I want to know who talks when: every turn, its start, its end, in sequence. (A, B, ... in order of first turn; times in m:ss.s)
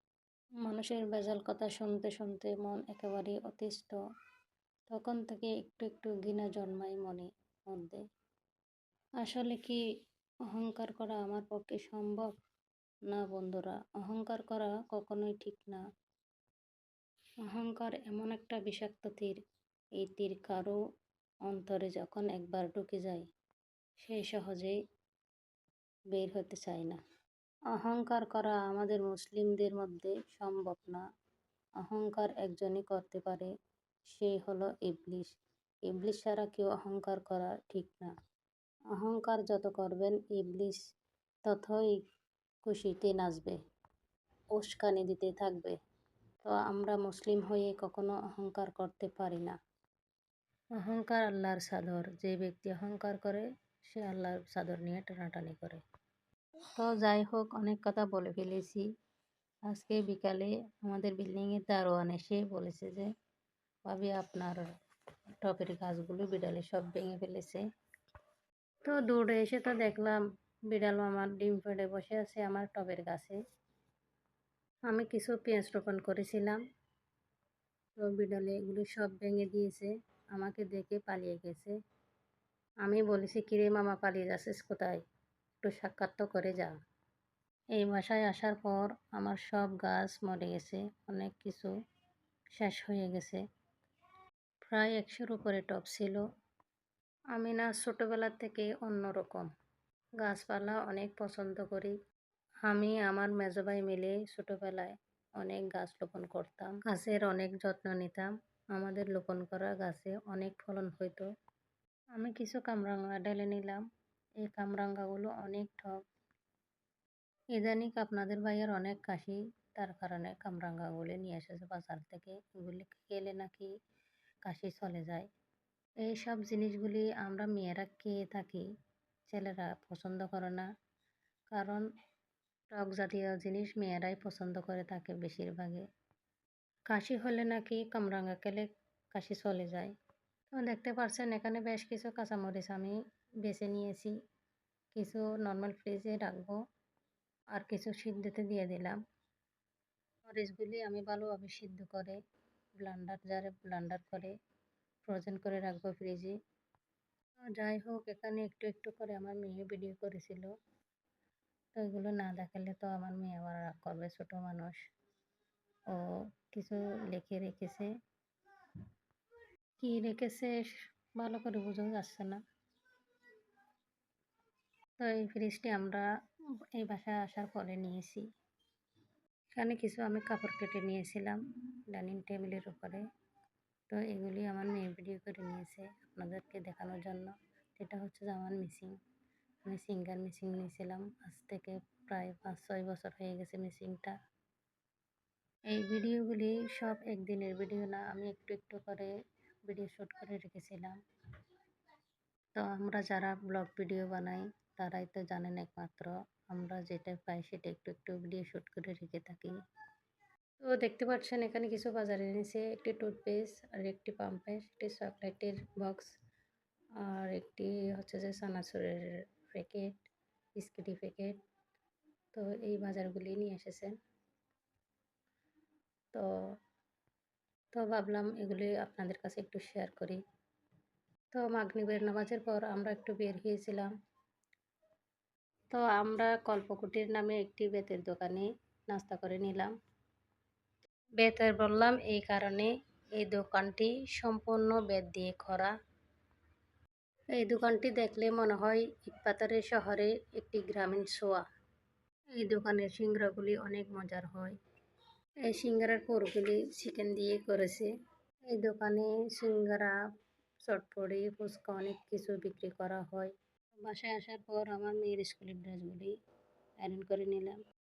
0:00.6-0:04.0 A
0:04.9-0:08.0 A
0:09.2-0:09.8 A
0:10.5-0:12.3 A
0:13.1-0:15.8 A
0:17.5-0:19.4 A
0:20.0-0:20.8 A
0:21.5-0:23.2 A
0:24.0-0:24.8 A
0:26.1-0:27.0 A
0:27.7-0:31.0 A
0:31.8-0:33.5 A
0:34.1-0:35.3 A
0:35.8-0:38.1 A
0:38.9-0:40.8 A
0:41.4-0:42.0 A
0:42.6-0:43.6 A
0:44.5-0:45.8 A
0:46.4-0:49.5 A
0:50.8-0:55.8 A
0:56.8-0:58.8 A
0:59.7-1:03.1 A
1:03.9-1:04.7 A
1:05.4-1:07.6 A
1:08.8-1:10.2 A
1:10.7-1:13.4 A
1:14.9-1:16.6 A
1:18.0-1:21.8 A
1:22.8-1:25.0 A
1:25.6-1:26.7 A
1:27.8-1:31.7 A
1:32.6-1:33.4 A
1:34.7-1:36.2 A
1:37.3-1:39.5 A
1:40.2-1:41.9 A
1:42.7-1:51.3 A
1:52.2-1:53.8 A
1:54.4-1:56.0 A
1:57.5-2:03.7 A
2:04.4-2:05.3 A
2:06.0-2:08.6 A
2:09.3-2:10.7 A
2:11.5-2:11.8 A
2:12.7-2:15.8 A
2:16.9-2:19.9 A
2:20.5-2:24.1 A
2:24.9-2:26.6 A
2:27.5-2:29.0 A
2:30.3-2:32.2 A
2:32.8-2:34.3 A
2:35.0-2:36.4 A
2:37.6-2:40.5 A
2:41.7-2:44.8 A
2:45.9-2:47.9 A
2:49.8-2:52.4 A
2:55.0-2:56.0 A
2:56.8-2:58.2 A
2:59.6-3:01.4 A
3:01.9-3:03.0 A
3:03.9-3:08.9 A
3:09.6-3:14.1 A
3:15.7-3:19.1 A
3:19.7-3:21.0 A
3:22.6-3:29.5 A
3:30.6-3:36.1 A
3:37.0-3:40.0 A
3:40.6-3:41.4 A
3:42.3-3:43.9 A
3:47.7-3:50.2 A
3:51.3-3:53.9 A
3:55.7-3:59.7 A
4:01.2-4:05.7 A
4:07.3-4:11.4 A
4:12.4-4:14.6 A
4:15.5-4:17.9 A
4:18.5-4:20.0 A
4:20.7-4:23.3 A
4:23.8-4:26.1 A
4:26.8-4:27.6 A